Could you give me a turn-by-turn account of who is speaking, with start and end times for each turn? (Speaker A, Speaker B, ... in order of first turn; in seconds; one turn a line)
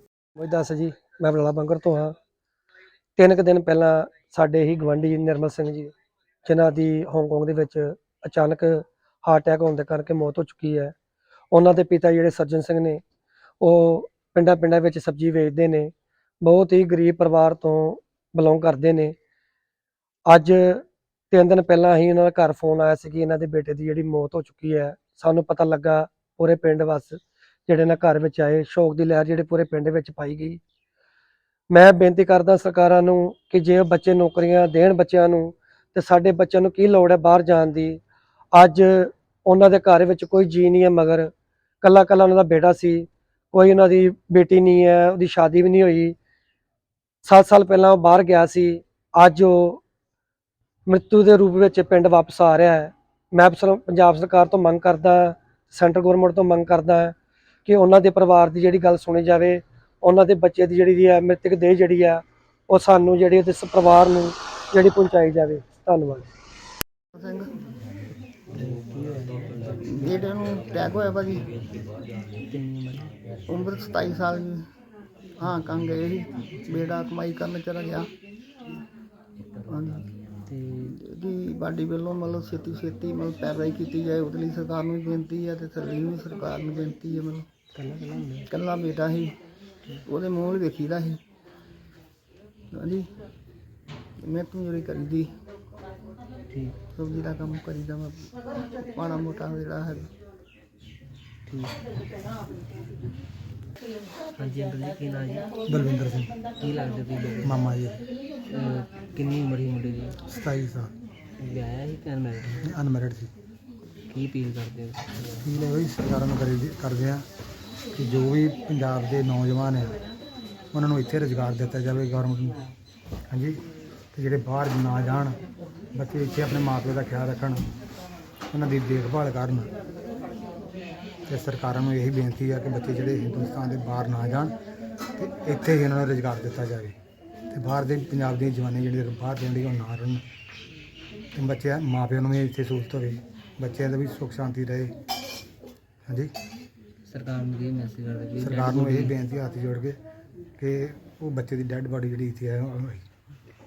Speaker A: 0.4-2.1
Speaker A: 3.2-5.9
Speaker A: 6.4-10.9
Speaker A: 11.5-13.0
Speaker A: 13.6-19.2
Speaker A: 20.3-30.6
Speaker A: 31.7-38.0
Speaker A: 38.5-41.3
Speaker A: 41.8-46.1
Speaker A: 47.2-49.8
Speaker A: 50.9-66.3
Speaker B: 67.2-67.5
Speaker C: 68.5-70.3
Speaker B: 69.8-71.5
Speaker C: 72.5-73.1
Speaker B: 73.5-74.7
Speaker B: 75.4-78.1
Speaker B: 79.7-80.1
Speaker C: 80.5-81.0
Speaker B: 80.8-87.5
Speaker C: 87.8-88.5
Speaker B: 88.5-89.3
Speaker B: 90.1-91.2
Speaker B: 92.7-93.1
Speaker B: 94.2-95.3
Speaker B: 97.0-98.3
Speaker B: 98.9-100.1
Speaker C: 101.5-101.8
Speaker C: 104.4-105.5
Speaker D: 105.7-106.3
Speaker C: 106.6-107.6
Speaker D: 107.4-108.0
Speaker C: 108.5-110.2
Speaker D: 110.3-110.9
Speaker C: 111.4-112.7
Speaker D: 112.6-113.3
Speaker C: 114.1-115.5
Speaker D: 115.4-117.3
Speaker D: 117.9-120.0
Speaker D: 120.7-122.6
Speaker D: 123.3-123.6
Speaker D: 124.1-125.4
Speaker D: 126.0-127.7
Speaker D: 128.5-129.7
Speaker D: 131.3-134.5
Speaker D: 135.2-136.9
Speaker D: 137.5-140.2
Speaker D: 141.3-144.9
Speaker D: 146.1-146.3
Speaker C: 147.1-149.1
Speaker D: 148.4-150.0
Speaker D: 150.6-153.1